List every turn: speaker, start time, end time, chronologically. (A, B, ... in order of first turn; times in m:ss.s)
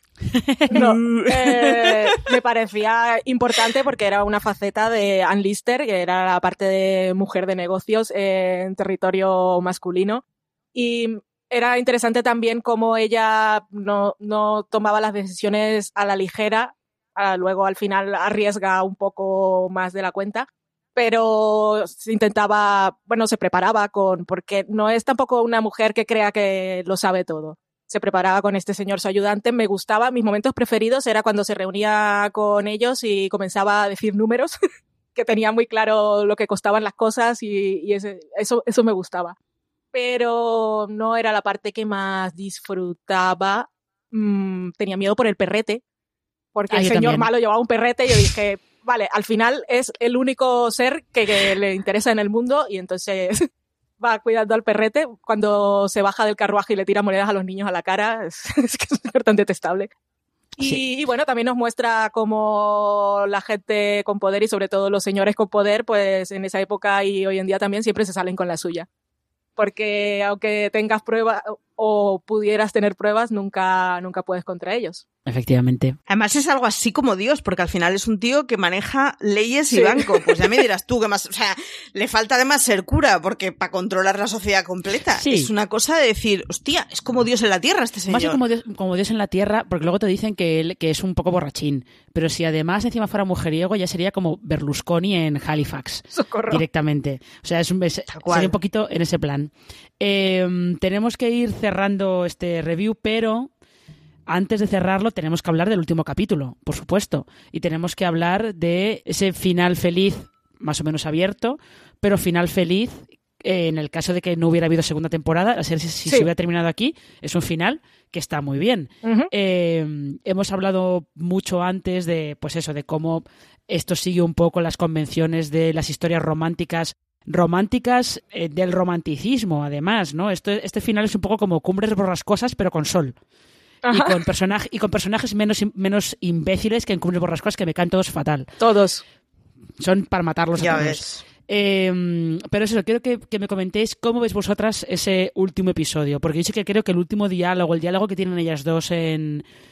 0:00.3-0:00.7 A
0:00.7-0:10.2 B
0:00.7-0:02.0 C
0:10.8-0:34.6 B
0:35.2-0:39.4 B
0:39.9-0:45.8 B
0:46.6-0:53.5 B
0:46.7-0:47.3 A
0:54.0-0:59.9 B
1:00.6-1:08.9 B
1:09.6-1:15.0 B
1:15.3-1:16.0 A
1:16.1-1:28.4 C
1:19.7-1:20.4 B
1:25.2-1:25.5 A
1:28.1-1:43.5 A
1:36.2-1:36.6 B
1:38.1-1:38.6 C
1:44.3-2:13.1 A
1:59.0-1:59.3 B
2:13.9-2:14.2 B
2:13.9-2:18.5 A
2:18.6-2:19.0 B
2:19.8-2:29.4 A
2:20.6-2:21.2 C